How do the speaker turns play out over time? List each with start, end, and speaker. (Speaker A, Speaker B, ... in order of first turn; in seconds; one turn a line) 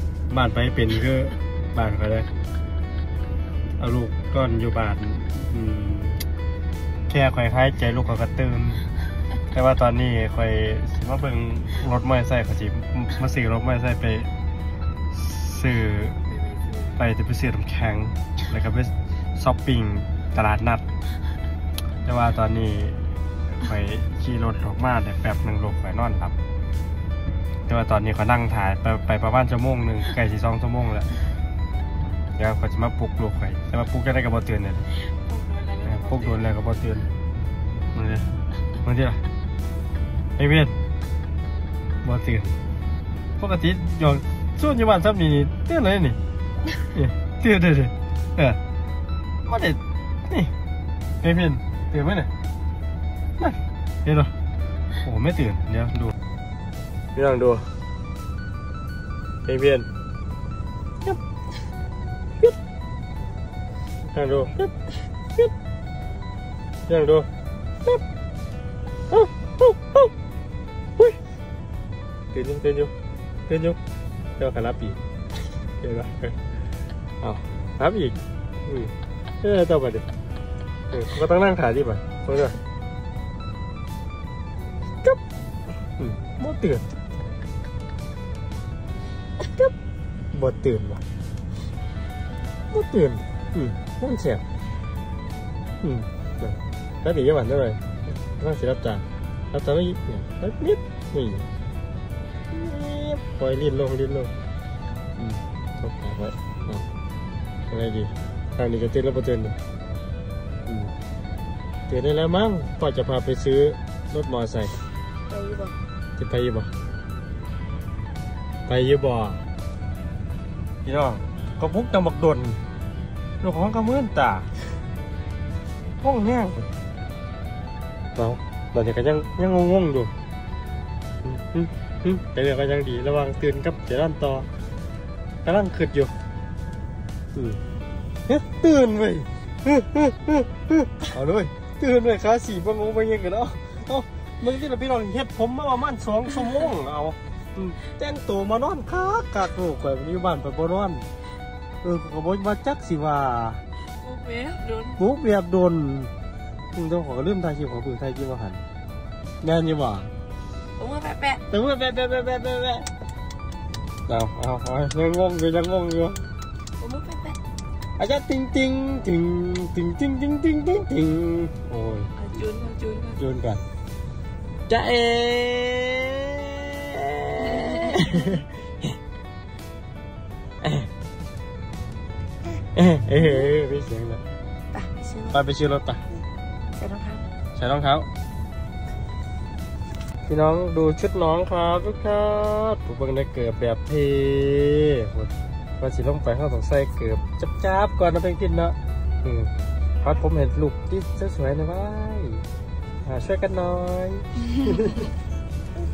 Speaker A: 0.3-2.3
Speaker A: 3.8-6.2
Speaker A: 7.1-8.8
Speaker A: 9.5-14.3
Speaker A: 15.1-16.2
Speaker A: 16.8-20.8
Speaker A: 22.1-26.4
Speaker A: 27.7-31.1
Speaker A: 32.4-34.9
Speaker B: 35.2-35.8
Speaker A: 35.8-37.1
Speaker A: 37.9-38.3
Speaker A: 38.8-39.2
Speaker A: 40.4-40.8
Speaker A: 42.0-42.5
Speaker A: 43.4-46.2
Speaker A: 46.9-48.6
Speaker A: 49.5-50.5
Speaker A: 51.2-52.3
Speaker A: 53.4-54.3
Speaker A: 55.0-56.1
Speaker A: 57.1-57.7
Speaker A: 59.5-59.9
Speaker A: 64.1-64.8
Speaker A: 66.9-67.3
Speaker A: 69.1-70.1
Speaker A: 72.3-72.9
Speaker A: 73.5-73.8
Speaker A: 74.4-75.0
Speaker A: 75.8-76.4
Speaker A: 77.2-80.1
Speaker A: 80.9-82.6
Speaker A: 86.0-86.8
Speaker A: 90.3-91.0
Speaker A: 92.7-94.4
Speaker A: 95.8-101.5
Speaker A: 102.5-104.3
Speaker A: 105.2-106.8
Speaker A: 107.7-109.5
Speaker A: 110.7-110.9
Speaker A: 111.9-114.7
Speaker B: 115.3-115.7
Speaker A: 116.2-116.7
Speaker A: 118.7-119.4
Speaker A: 120.8-122.6
Speaker A: 123.4-124.5
Speaker A: 126.0-126.7
Speaker A: 128.2-130.1
Speaker A: 131.2-134.5
Speaker A: 135.4-136.1
Speaker A: 138.3-151.1
Speaker A: 151.8-153.6
Speaker B: 154.0-155.0
Speaker A: 155.0-156.1
Speaker A: 156.7-158.6
Speaker A: 159.4-160.1
Speaker B: 160.8-161.4
Speaker A: 161.5-162.9
Speaker A: 164.1-166.2
Speaker B: 166.8-167.4
Speaker A: 168.0-172.2
Speaker B: 172.2-173.2
Speaker A: 173.2-173.6
Speaker A: 174.7-178.4
Speaker B: 177.5-178.2
Speaker A: 180.6-180.9
Speaker A: 182.7-184.2
Speaker B: 184.7-185.4
Speaker A: 185.3-186.0
Speaker B: 186.8-187.2
Speaker A: 187.5-188.1
Speaker A: 190.2-202.4
Speaker A: 203.0-205.1